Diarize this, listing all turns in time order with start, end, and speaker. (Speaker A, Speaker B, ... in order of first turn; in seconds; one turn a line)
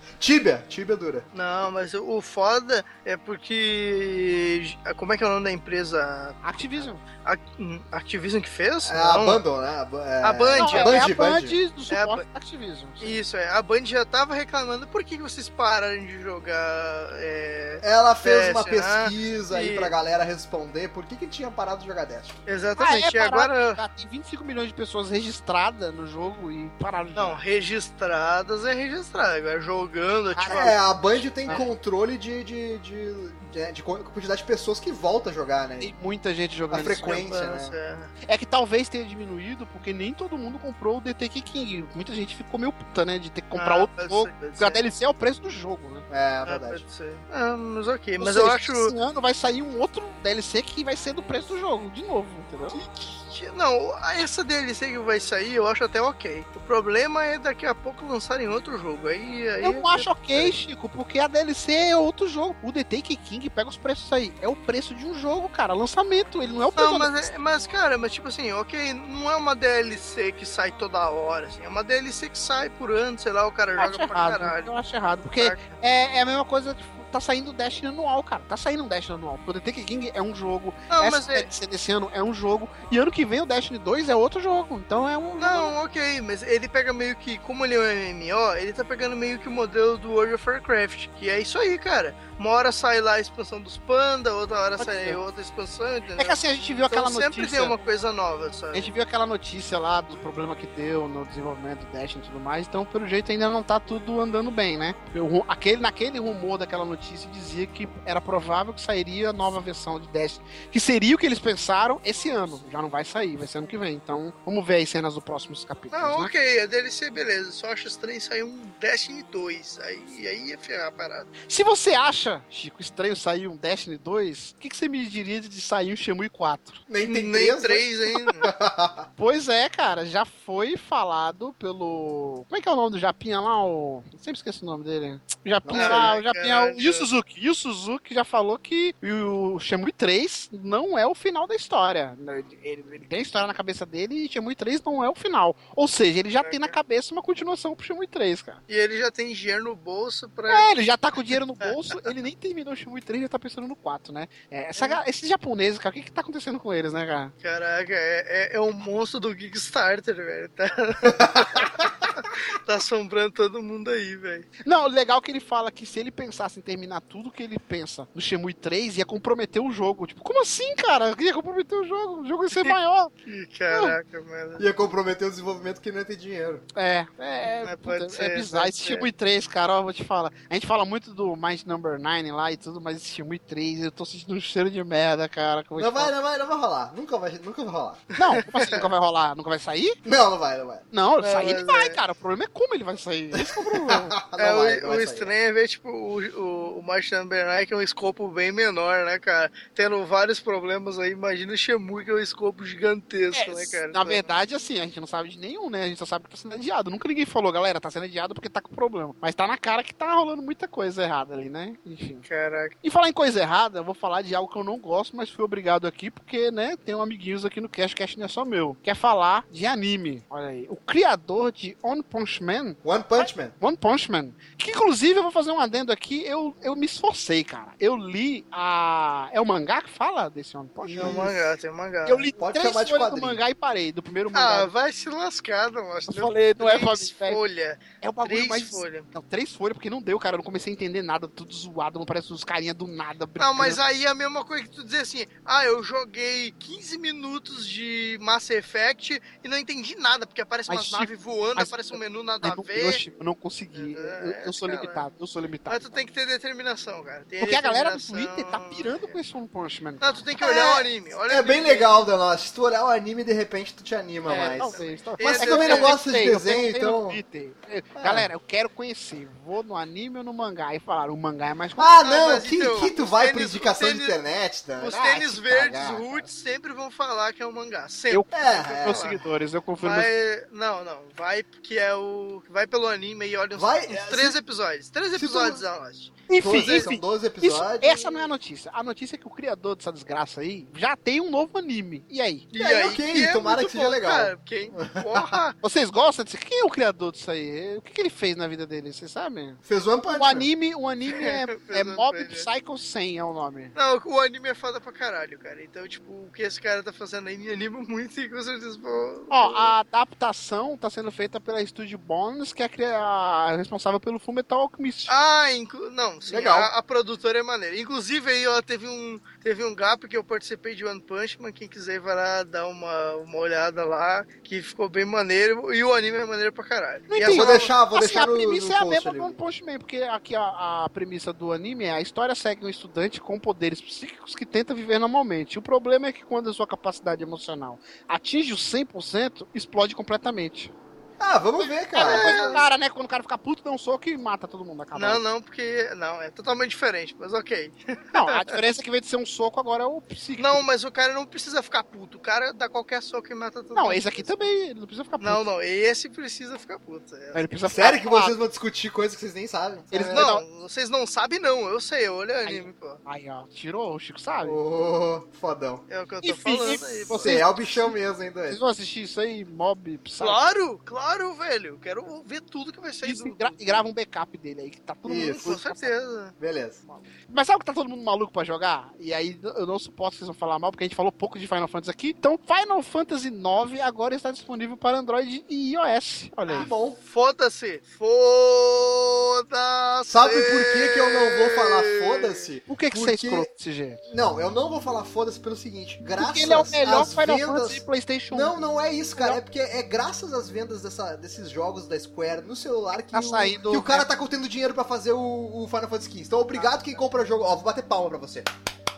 Speaker A: 0.2-1.2
Speaker B: 1.3-9.4
Speaker C: 6.4-7.0
Speaker A: 8.8-11.6
Speaker B: 10.2-11.0
Speaker C: 10.6-13.2
Speaker B: 11.9-12.2
Speaker B: 13.0-19.9
Speaker A: 17.8-22.4
Speaker B: 22.5-23.8
Speaker C: 22.8-27.4
Speaker B: 27.1-31.6
Speaker C: 30.3-30.7
Speaker A: 30.5-35.9
Speaker C: 35.8-37.2
Speaker A: 36.7-37.8
Speaker B: 37.0-38.1
Speaker C: 38.2-46.0
Speaker B: 43.5-44.8
Speaker A: 46.1-46.8
Speaker B: 46.5-48.9
Speaker C: 48.2-52.8
Speaker B: 52.7-60.5
Speaker C: 59.6-67.3
Speaker B: 66.8-74.7
Speaker C: 73.8-85.7
Speaker B: 75.4-75.7
Speaker B: 80.9-81.5
Speaker B: 85.4-98.9
Speaker C: 94.8-95.2
Speaker C: 96.2-97.8
Speaker C: 98.7-116.3
Speaker B: 115.9-121.3
Speaker C: 121.5-126.8
Speaker A: 126.9-129.1
Speaker B: 127.0-128.4
Speaker C: 129.2-148.6
Speaker A: 135.6-136.1
Speaker B: 135.7-137.1
Speaker B: 146.4-146.7
Speaker B: 148.7-150.7
Speaker C: 150.5-157.3
Speaker B: 151.6-152.0
Speaker B: 157.4-164.5
Speaker C: 164.6-173.1
Speaker B: 172.5-174.8
Speaker C: 173.7-173.9
Speaker A: 174.6-176.6
Speaker C: 176.7-186.1
Speaker B: 177.6-179.1
Speaker A: 185.8-188.0
Speaker B: 188.1-188.8
Speaker C: 188.2-190.0
Speaker A: 190.0-190.8
Speaker C: 190.9-194.2
Speaker B: 191.2-192.0
Speaker A: 193.3-195.3
Speaker B: 194.4-204.3
Speaker C: 203.3-212.2
Speaker B: 212.2-212.8
Speaker C: 212.8-231.2
Speaker A: 222.8-223.5
Speaker A: 230.8-231.5
Speaker B: 230.9-232.3
Speaker C: 232.0-234.7
Speaker A: 232.3-233.4
Speaker B: 234.3-239.1
Speaker C: 236.1-237.4
Speaker C: 238.0-243.8
Speaker B: 243.4-253.0
Speaker C: 250.7-256.0
Speaker B: 253.7-255.1
Speaker B: 255.7-259.2
Speaker C: 257.4-260.2
Speaker B: 260.0-262.1
Speaker A: 260.4-267.2
Speaker C: 264.3-271.9
Speaker B: 264.6-265.9
Speaker A: 267.9-268.3
Speaker A: 271.8-276.2
Speaker B: 272.0-274.1
Speaker B: 274.8-279.2
Speaker C: 278.1-280.1
Speaker A: 278.3-279.1
Speaker B: 279.8-286.9
Speaker A: 283.5-284.4
Speaker A: 285.1-285.6
Speaker C: 286.3-292.4
Speaker A: 286.4-288.0
Speaker B: 292.5-295.6
Speaker A: 292.6-295.4
Speaker C: 295.6-303.7
Speaker A: 299.6-300.5
Speaker B: 301.1-302.5
Speaker B: 303.8-309.7
Speaker C: 309.3-315.1
Speaker B: 315.1-327.7
Speaker C: 316.3-316.7
Speaker C: 327.1-340.7
Speaker A: 327.2-329.4
Speaker A: 341.2-342.6
Speaker C: 341.6-345.2
Speaker B: 342.0-342.6
Speaker B: 344.9-348.6
Speaker C: 348.1-350.6
Speaker B: 350.4-354.5
Speaker C: 353.7-355.4
Speaker B: 355.2-357.5
Speaker C: 357.3-358.4
Speaker A: 357.7-360.3
Speaker C: 359.9-360.4
Speaker B: 360.1-363.0
Speaker C: 362.4-364.6
Speaker A: 364.4-365.8
Speaker B: 365.9-367.4
Speaker C: 366.2-367.9
Speaker A: 367.1-368.6
Speaker C: 368.5-370.4
Speaker B: 370.2-373.8
Speaker C: 373.0-375.9
Speaker A: 375.1-375.5
Speaker B: 375.2-376.3
Speaker A: 376.4-376.8
Speaker C: 377.3-386.7
Speaker A: 386.4-387.0
Speaker B: 387.0-392.5
Speaker A: 390.1-393.5
Speaker C: 392.7-394.0
Speaker A: 394.1-408.5
Speaker C: 396.0-398.6
Speaker C: 403.1-404.1
Speaker B: 406.5-406.9